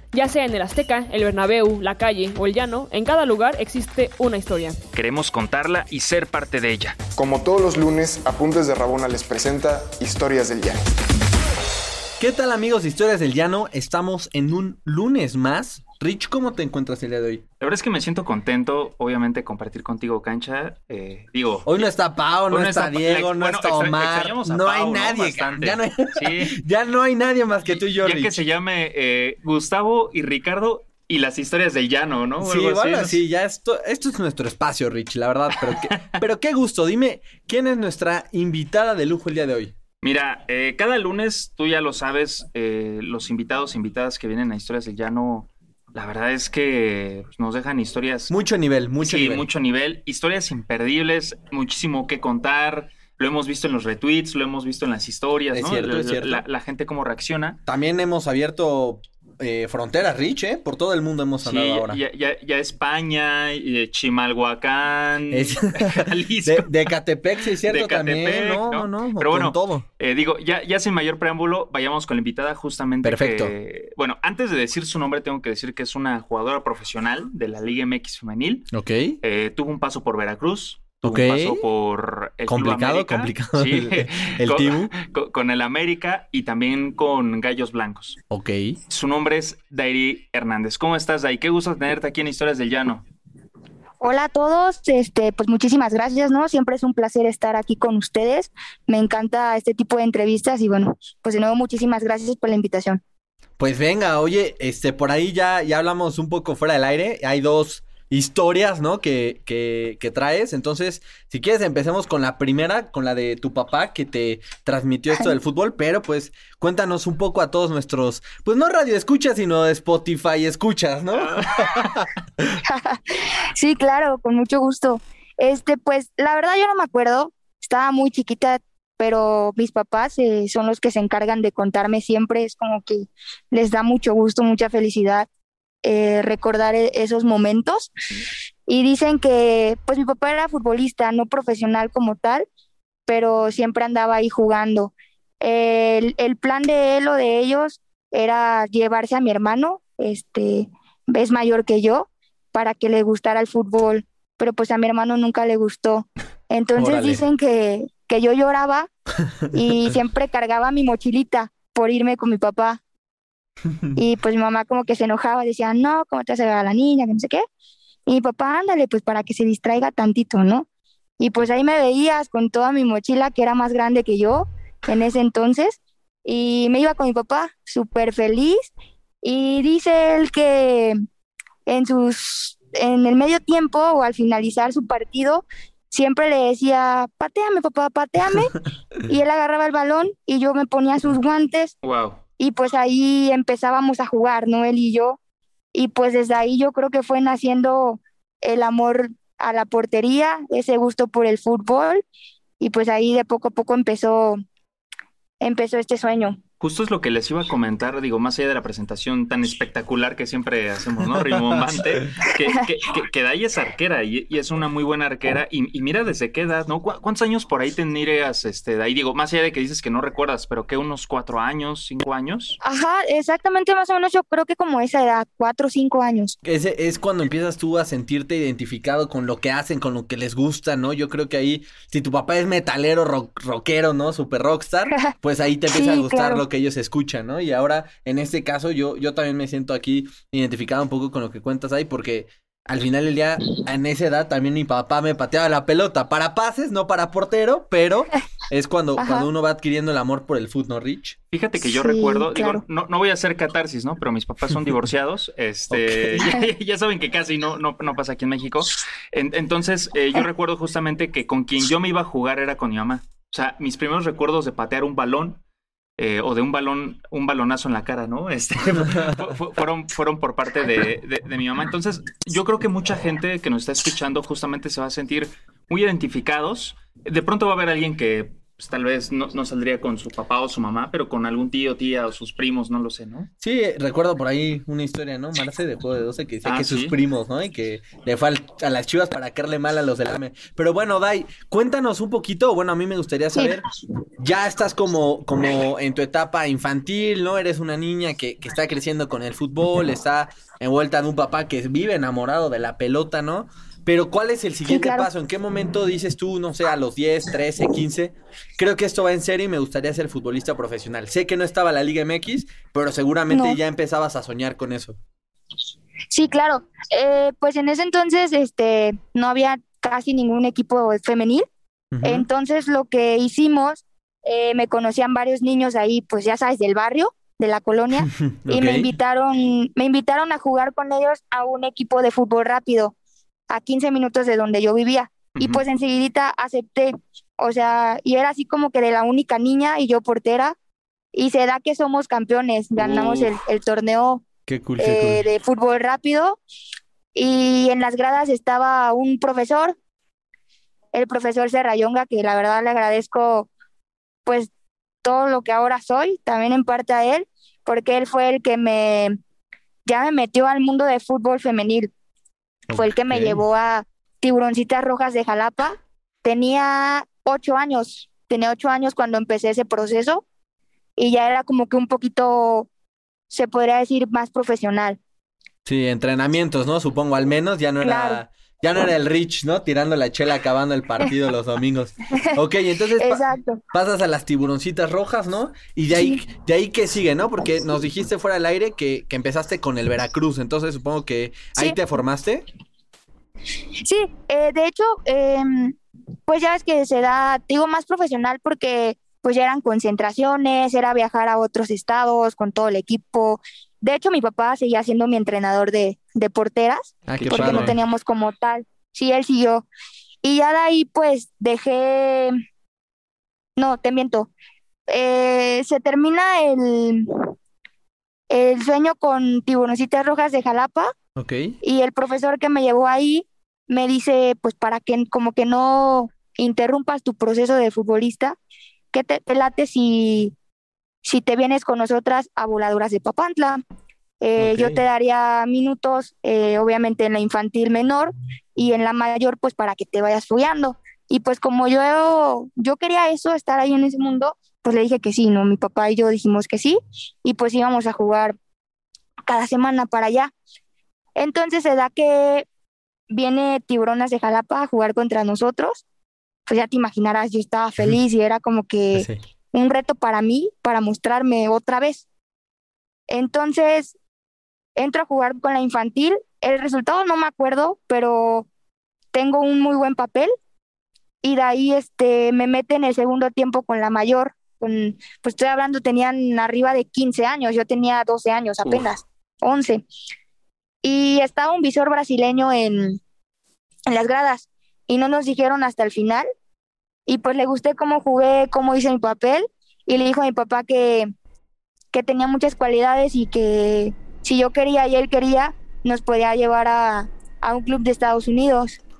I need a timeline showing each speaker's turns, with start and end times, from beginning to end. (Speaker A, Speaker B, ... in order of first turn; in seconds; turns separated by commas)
Speaker A: 0.1-4.8, Speaker B: 4.9-7.0, Speaker C: 7.2-10.8, Speaker D: 12.2-17.4, Speaker B: 17.6-21.9, Speaker D: 21.7-28.4, Speaker B: 22.5-26.6, Speaker B: 27.7-33.2, Speaker D: 32.4-39.7, Speaker B: 35.6-36.2, Speaker B: 40.0-48.3, Speaker D: 48.3-49.5, Speaker B: 49.0-57.6, Speaker D: 55.5-56.4, Speaker D: 57.7-62.0, Speaker B: 61.4-66.8, Speaker D: 65.3-69.9, Speaker B: 67.6-78.7, Speaker D: 73.0-73.5, Speaker D: 78.7-79.2, Speaker B: 79.2-88.2, Speaker D: 81.0-81.7, Speaker D: 82.5-84.9, Speaker D: 88.3-88.8, Speaker B: 88.9-93.0, Speaker E: 94.0-103.0, Speaker D: 103.6-122.6, Speaker B: 121.1-122.0, Speaker E: 122.7-135.3, Speaker E: 135.8-137.9, Speaker E: 138.7-142.5, Speaker E: 143.1-158.9, Speaker D: 156.8-157.2, Speaker E: 159.5-162.8, Speaker D: 163.7-164.0, Speaker E: 164.0-167.4, Speaker E: 168.1-170.7, Speaker E: 171.2-178.7, Speaker E: 179.2-181.0, Speaker E: 181.7-188.6, Speaker E: 189.1-191.7, Speaker B: 191.8-192.2, Speaker E: 192.4-195.2, Speaker E: 195.7-202.0, Speaker E: 202.6-204.4, Speaker E: 205.4-206.4, Speaker B: 206.6-222.6, Speaker E: 212.3-212.6, Speaker E: 222.6-226.4, Speaker D: 226.4-251.2, Speaker E: 235.7-236.4, Speaker E: 249.0-249.3, Speaker B: 251.3-265.4, Speaker E: 251.6-252.6, Speaker D: 255.7-256.3, Speaker B: 266.0-283.3, Speaker D: 283.4-293.6, Speaker B: 286.4-286.9, Speaker D: 294.2-315.0, Speaker E: 304.7-305.1, Speaker E: 313.3-313.6, Speaker E: 316.1-321.4, Speaker D: 321.9-322.3, Speaker E: 322.0-332.9, Speaker D: 328.0-328.9, Speaker E: 333.5-340.6, Speaker B: 335.4-335.6, Speaker E: 341.1-344.2, Speaker B: 342.8-343.4, Speaker D: 344.5-345.2, Speaker E: 344.8-346.4, Speaker E: 347.1-349.8, Speaker E: 350.9-353.5, Speaker E: 354.2-354.5, Speaker E: 355.0-359.2, Speaker E: 359.9-361.9, Speaker D: 362.7-363.4, Speaker E: 362.7-370.2, Speaker E: 371.0-372.7, Speaker E: 373.3-375.0, Speaker D: 375.6-392.5, Speaker E: 377.8-378.2, Speaker E: 383.0-383.6, Speaker E: 385.9-386.2, Speaker E: 393.9-395.8, Speaker E: 396.3-409.7, Speaker D: 407.1-407.8, Speaker B: 407.1-407.8, Speaker E: 410.2-412.3, Speaker E: 413.6-414.3, Speaker E: 414.9-417.3, Speaker E: 418.3-420.9, Speaker D: 421.2-421.6, Speaker E: 421.6-428.4, Speaker E: 428.9-430.3, Speaker E: 431.0-433.6, Speaker E: 434.2-448.4, Speaker D: 434.4-434.8, Speaker E: 449.3-450.3, Speaker E: 451.2-452.5, Speaker E: 453.1-455.8, Speaker E: 456.5-462.0, Speaker D: 458.9-459.2, Speaker E: 463.1-463.9, Speaker E: 464.8-468.5, Speaker E: 469.1-470.3, Speaker E: 471.2-479.8, Speaker E: 480.8-483.0, Speaker E: 483.9-486.3, Speaker E: 487.1-491.1, Speaker E: 491.9-498.8